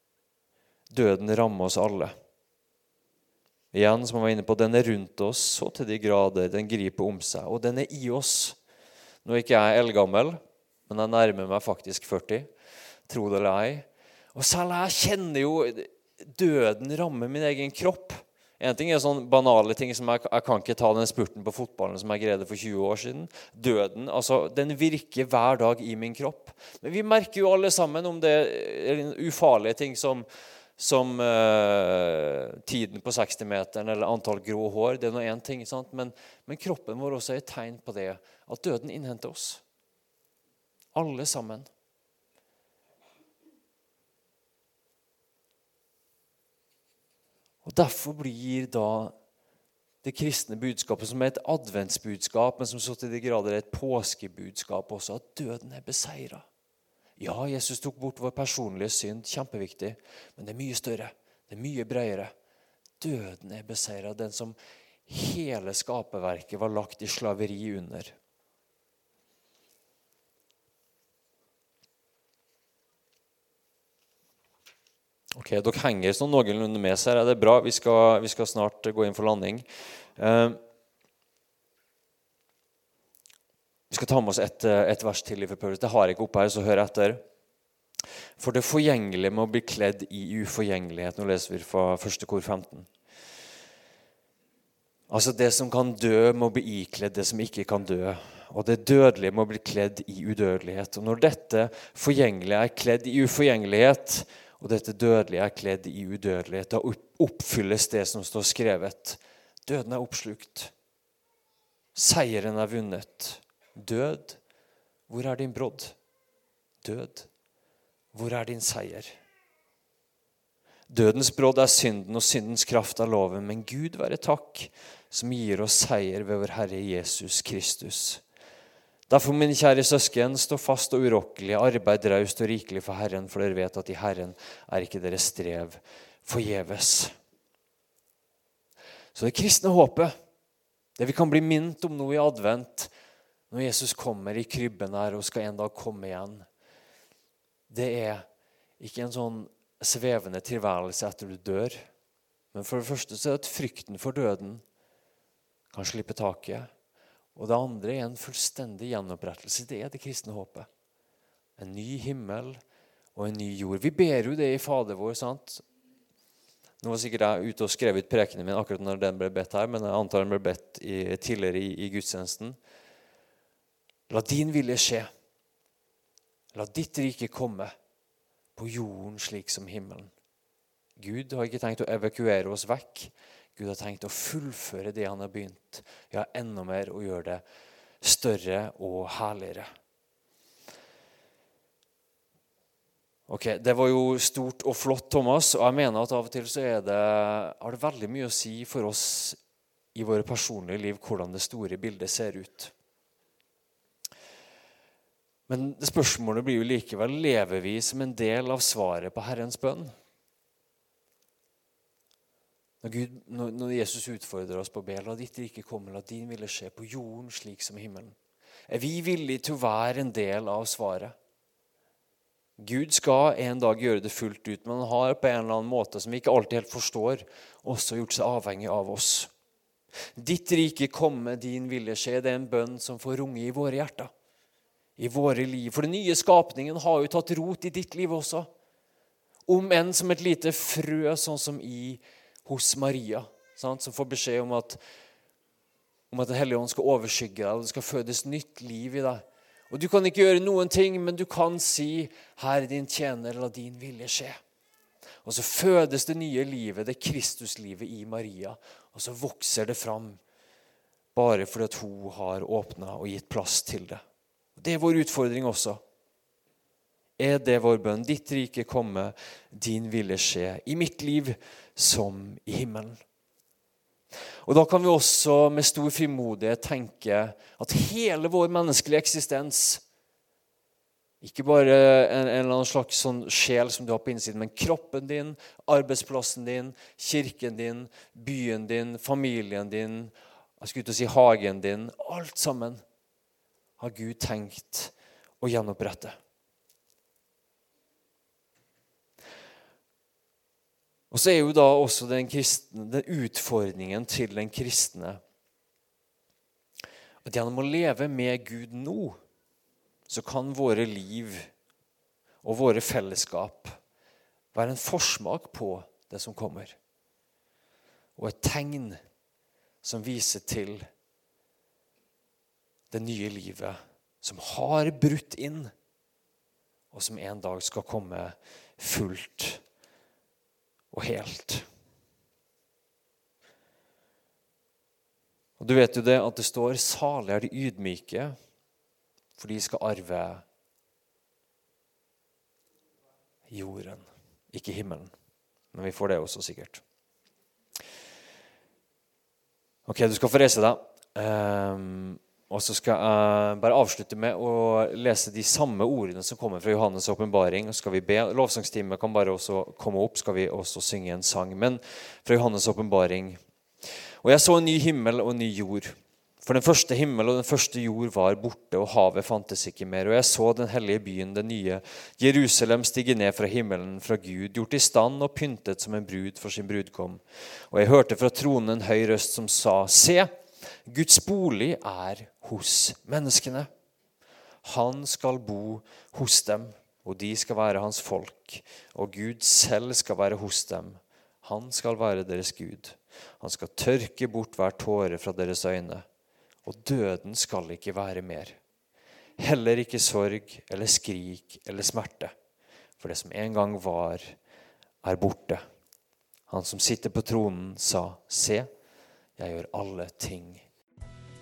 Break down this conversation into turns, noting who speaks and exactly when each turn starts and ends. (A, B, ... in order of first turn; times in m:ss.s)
0:00.9-0:02.1 A
0:03.7-0:08.6 A
0:09.2-0:12.5 A
0:13.1-0:30.2 A
0:30.8-0:39.6 A
0:40.9-0:41.7 A
0:47.6-0:49.1 A
0:50.0-0:56.4 A
0:57.2-1:02.3 A
1:03.0-1:04.6 A
1:05.1-1:08.1 A
1:15.3-1:19.6 A
1:20.2-1:20.6 A
1:23.9-1:27.2 A
1:28.4-1:32.9 A
1:35.1-1:50.7 A
1:51.9-1:54.4 A
1:55.1-1:55.9 A
1:56.8-1:57.3 A
1:58.1-1:59.1 A
2:00.9-2:08.2 A
2:09.1-2:17.1 A
2:19.1-2:20.1 A
2:21.0-2:22.9 A
2:23.5-2:26.4 A
2:27.7-2:28.2 A
2:28.8-2:31.8 A
2:32.5-2:34.6 A
2:35.7-2:36.7 A
2:37.3-2:40.7 A
2:41.6-2:42.6 A
2:43.1-2:45.6 A
2:46.8-2:52.6 A
2:54.1-2:55.1 A
2:56.5-2:57.7 A
2:58.6-3:00.1 A
3:01.0-3:07.4 A
3:08.0-3:09.7 A
3:13.3-3:19.4 A
3:19.9-3:22.7 A
3:25.5-3:29.9 A
3:32.8-3:38.2 A
3:38.7-3:41.1 A
3:42.6-3:49.3 A
3:50.2-3:54.1 A
3:55.0-3:58.5 A
3:59.5-4:04.8 A
4:06.1-4:14.4 A
4:15.2-4:20.2 A
4:21.1-4:24.0 A
4:24.6-4:25.8 A
4:27.2-4:33.0 A
4:34.4-4:39.8 A
4:41.2-4:52.8 A
4:53.8-4:56.2 A
5:01.1-5:05.2 A
5:07.2-5:09.2 A
5:10.1-5:11.5 A
5:12.4-5:13.7 A
5:14.5-5:16.8 A
5:18.2-5:19.0 A
5:19.8-5:20.8 A
5:22.9-5:25.7 A
5:26.9-5:29.6 A
5:30.9-5:31.6 A
5:35.6-5:38.4 A
5:39.4-5:40.4 A
5:43.5-5:45.1 A
5:45.7-5:46.8 A
5:49.9-6:03.4 A
6:04.2-6:20.3 A
6:20.8-6:23.7 A
6:24.6-6:36.0 A
6:36.6-6:38.6 A
6:39.4-6:42.3 A
6:43.0-6:44.3 A
6:45.0-6:45.6 A
6:46.5-6:48.7 A
6:49.4-6:50.6 A